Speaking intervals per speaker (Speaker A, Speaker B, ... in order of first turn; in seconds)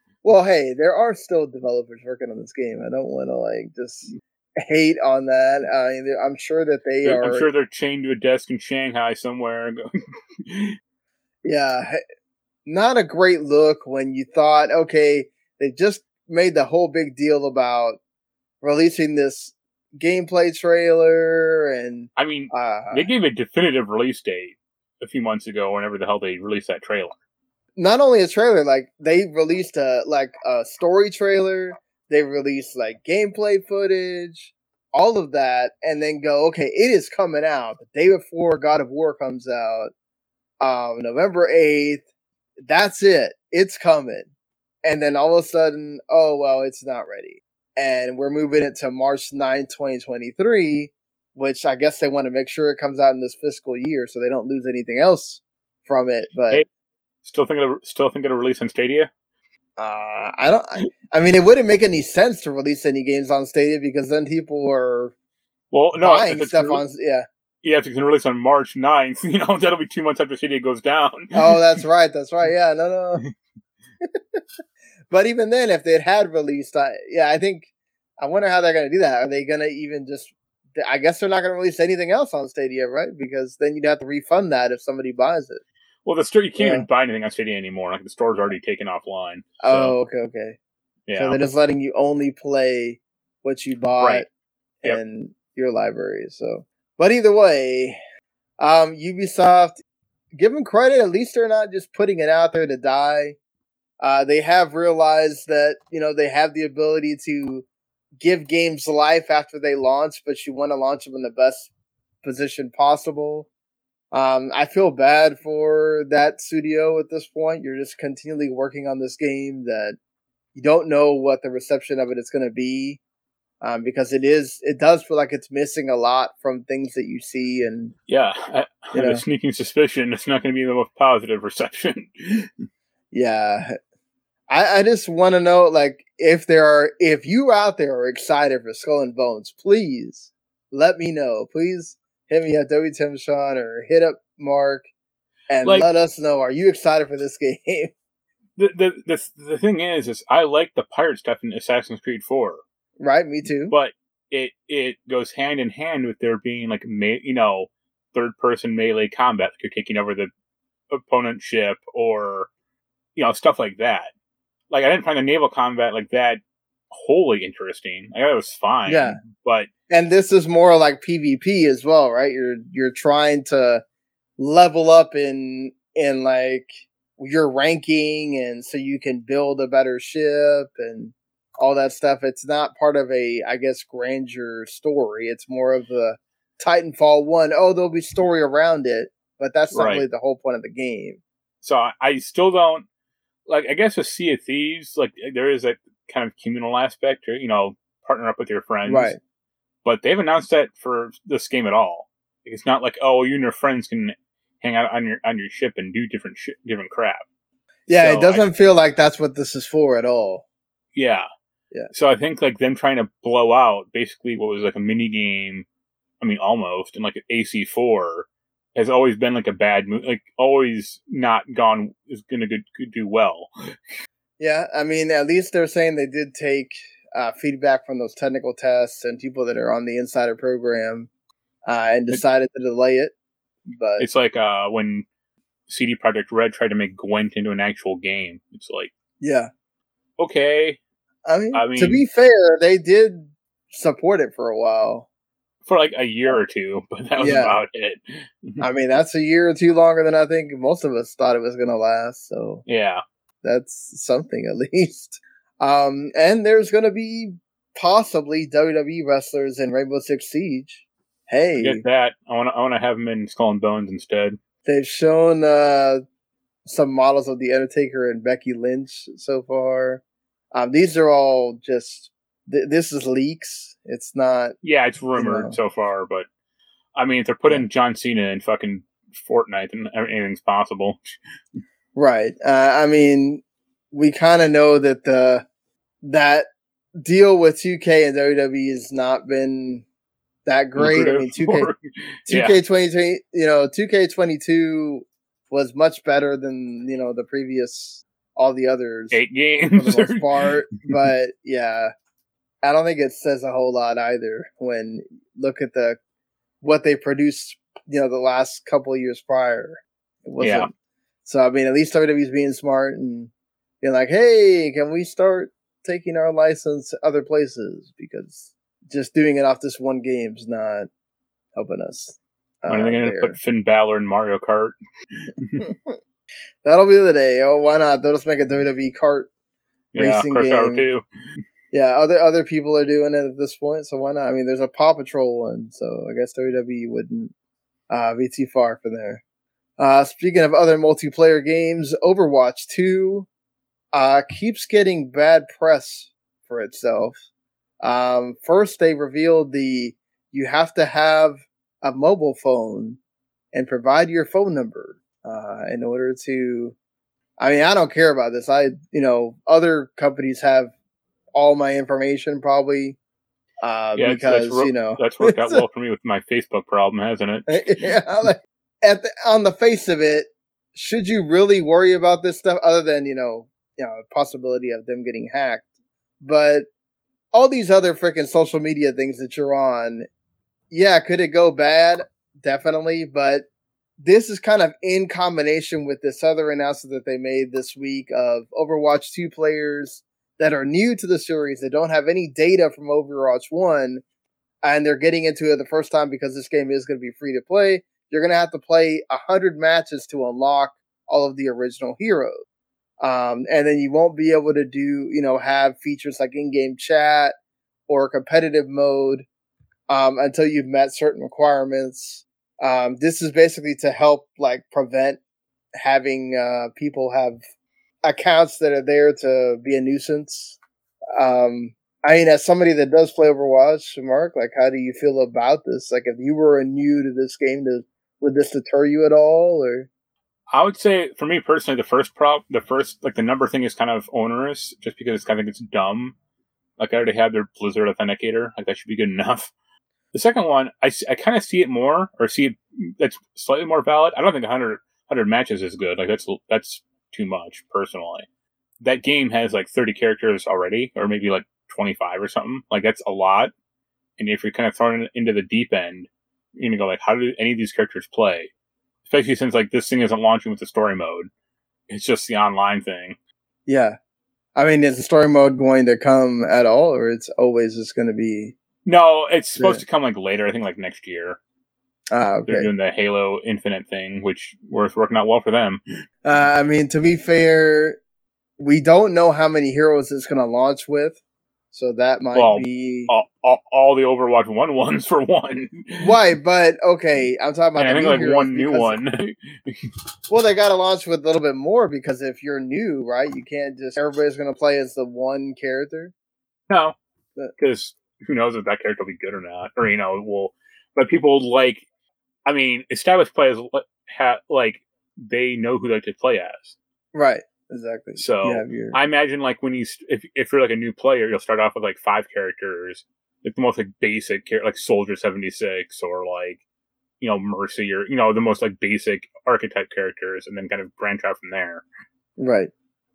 Speaker A: 0.2-7.5, 11.4-12.0, 12.7-18.0, 18.6-23.1, 27.8-39.9, 40.6-42.0, 42.6-44.3, 44.8-56.6, 59.8-65.1, 66.0-67.2, 71.3-73.2, 74.0-74.4, 75.1-85.6, 86.6-86.8, 89.6-90.6, 91.1-94.3, 94.8-98.0, 98.6-99.8, 100.3-103.4, 104.0-107.7, 108.2-111.7, 112.2-113.5, 114.1-120.0, 120.5-123.0, 123.6-127.9, 128.9-129.2, 133.1-133.8, 134.5-144.9, 145.5-147.9, 153.0-153.7, 168.8-169.2, 169.9-173.8, 174.4-191.2, 198.8-199.2, 207.9-210.4, 224.4-231.1, 231.7-233.1, 233.7-234.1, 239.2-239.5, 241.3-245.1, 247.2-247.6, 248.6-252.6, 253.4-261.8, 264.6-266.0, 266.6-270.0, 270.5-274.6, 275.2-275.5, 281.9-285.4, 286.0-286.5, 287.0-289.8, 290.4-291.7, 292.3-299.2, 299.7-301.9, 302.6-306.0, 306.6-310.7, 311.2-313.3, 313.8-320.9, 321.5-323.4, 325.6-325.9, 326.6-329.3, 330.0-330.8, 331.7-337.3, 337.9-339.2, 339.8-343.3, 343.9-347.2, 347.8-353.0, 353.5-356.7, 357.4-360.7, 361.3-363.0, 363.6-365.6, 367.5-375.6, 376.2-376.7, 377.3-380.1, 380.7-383.5, 384.0-394.0, 394.6-402.4, 403.0-407.3, 407.9-409.2, 409.9-415.2, 415.8-417.4, 418.0-420.6, 421.1-429.9, 463.7-463.9, 464.6-468.5, 472.1-472.7, 476.2-478.0, 478.6-481.2, 481.7-483.1, 486.0-489.0, 490.3-496.1, 507.1-509.0, 522.4-522.7
Speaker B: 7.0-9.8, 10.4-10.8, 22.1-27.1, 57.2-59.1, 65.7-66.8, 67.6-71.6, 86.0-89.9, 91.1-91.4, 94.0-94.2, 128.1-132.5, 145.6-145.9, 148.6-152.6, 153.7-160.3, 160.9-162.5, 163.2-164.1, 164.7-166.4, 166.9-169.7, 189.7-190.1, 191.6-192.8, 193.5-199.1, 199.8-207.2, 207.9-208.4, 210.9-211.2, 211.9-215.7, 216.2-223.5, 234.0-235.1, 235.7-238.9, 240.2-240.8, 241.5-242.0, 245.7-248.6, 252.7-253.0, 261.6-264.4, 274.6-276.2, 276.9-281.2, 290.8-292.6, 299.1-300.3, 310.4-310.7, 322.7-324.7, 325.2-325.7, 329.9-331.0, 364.0-367.6, 430.5-436.1, 436.8-439.5, 440.1-448.2, 448.8-453.5, 454.2-458.5, 459.1-461.3, 461.9-463.1, 468.8-471.4, 472.5-475.8, 482.3-486.1, 487.8-489.9, 496.7-497.0, 497.6-501.8, 502.4-506.8, 508.2-516.6, 517.2-521.8